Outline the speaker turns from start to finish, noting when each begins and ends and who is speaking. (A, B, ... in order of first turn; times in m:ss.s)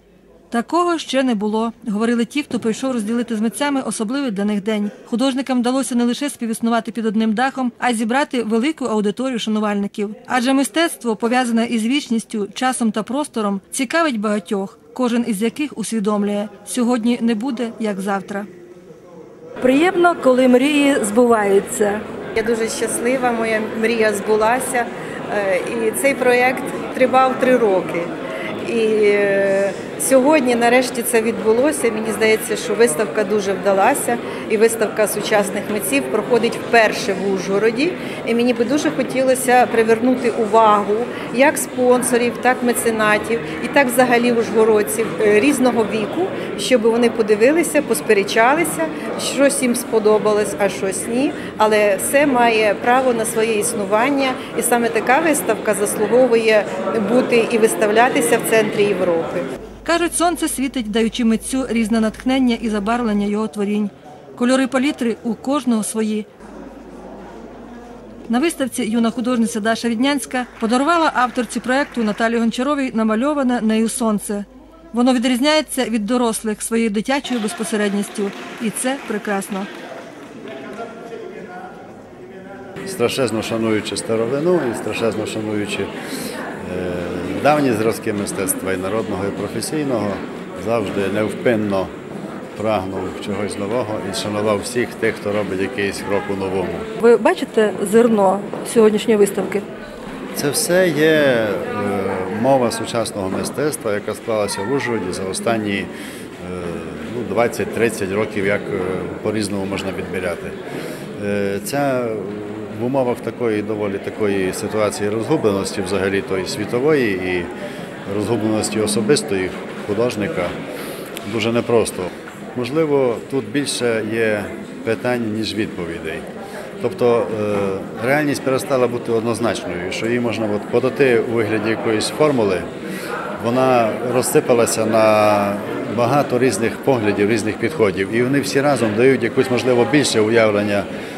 0:00.5-0:18.5 A
0:19.6-0:22.0 A
0:22.4-0:28.1 B
0:28.6-0:59.5 B
0:59.8-1:06.3 A
1:08.3-1:19.7 A
1:22.8-1:25.9 C
1:26.6-1:31.9 C
1:32.6-1:36.9 C
1:37.0-1:39.6 A
1:40.3-1:50.6 C
1:51.2-1:57.5 C
1:58.0-2:00.5 C
2:01.2-2:06.2 C
2:06.8-2:12.6 C
2:13.4-2:20.8 C